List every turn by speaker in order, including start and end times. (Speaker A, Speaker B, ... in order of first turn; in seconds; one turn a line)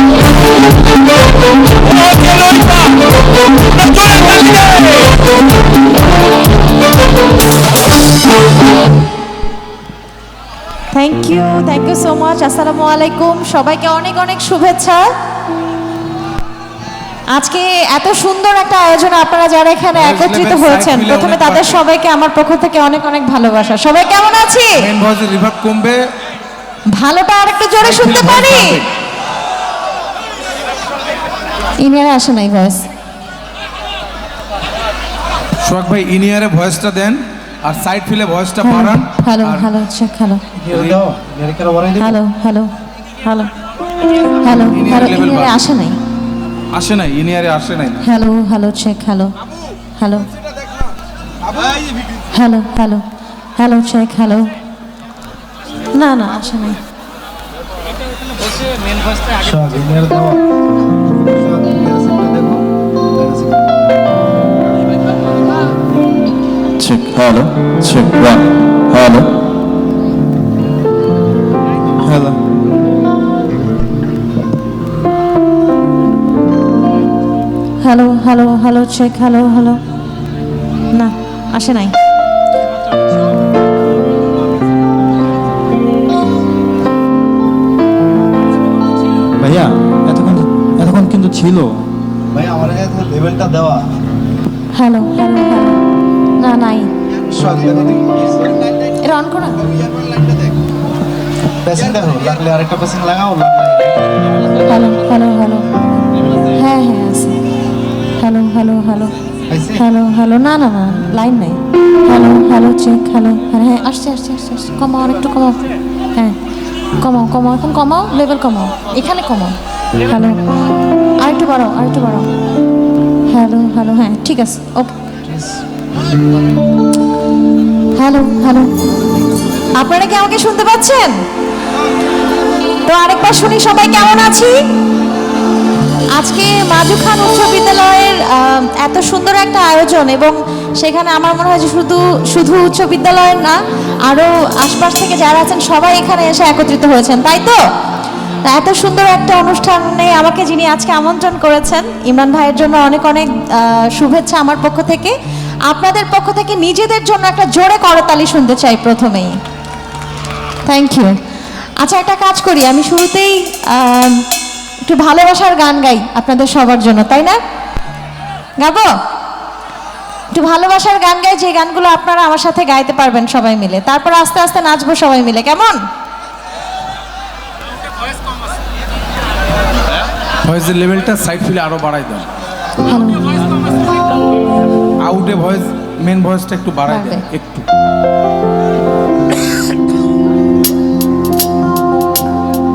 Speaker A: 2.1-2.9
Speaker A: 3.9-5.0
Speaker B: 10.9-15.1
Speaker B: 17.3-24.9
Speaker A: 19.9-21.8
Speaker A: 24.8-26.1
Speaker B: 26.9-28.9
Speaker A: 27.8-28.9
Speaker B: 31.8-32.9
Speaker A: 35.6-39.7
Speaker B: 38.6-40.4
Speaker A: 40.6-41.0
Speaker C: 40.7-42.2
Speaker B: 42.0-42.7
Speaker B: 43.2-43.5
Speaker B: 44.4-46.0
Speaker A: 44.6-45.6
Speaker A: 46.7-48.0
Speaker B: 48.0-49.4
Speaker B: 50.0-50.3
Speaker B: 52.3-53.0
Speaker B: 53.6-54.5
Speaker B: 55.9-56.8
Speaker C: 59.3-60.4
Speaker C: 61.4-63.6
Speaker D: 66.8-69.4
Speaker D: 72.0-72.4
Speaker B: 77.8-79.8
Speaker B: 80.9-81.9
Speaker D: 89.4-91.9
Speaker C: 92.3-93.9
Speaker B: 94.7-95.8
Speaker B: 96.4-96.9
Speaker C: 97.3-98.3
Speaker B: 99.0-99.7
Speaker C: 101.6-104.0
Speaker B: 104.6-105.7
Speaker B: 106.5-107.4
Speaker B: 108.2-109.1
Speaker C: 109.5-109.8
Speaker B: 109.8-115.6
Speaker B: 117.0-120.5
Speaker B: 121.2-122.3
Speaker B: 123.3-124.9
Speaker C: 125.3-125.6
Speaker B: 127.9-128.7
Speaker B: 129.8-131.2
Speaker B: 132.8-134.6
Speaker B: 136.2-147.6
Speaker B: 148.5-155.2
Speaker B: 155.7-159.4
Speaker B: 160.7-161.2
Speaker B: 161.8-164.3
Speaker B: 164.8-167.4
Speaker B: 168.6-168.9
Speaker B: 170.3-175.8
Speaker A: 180.4-182.3
Speaker B: 182.9-183.3
Speaker A: 185.0-187.7
Speaker B: 186.9-187.3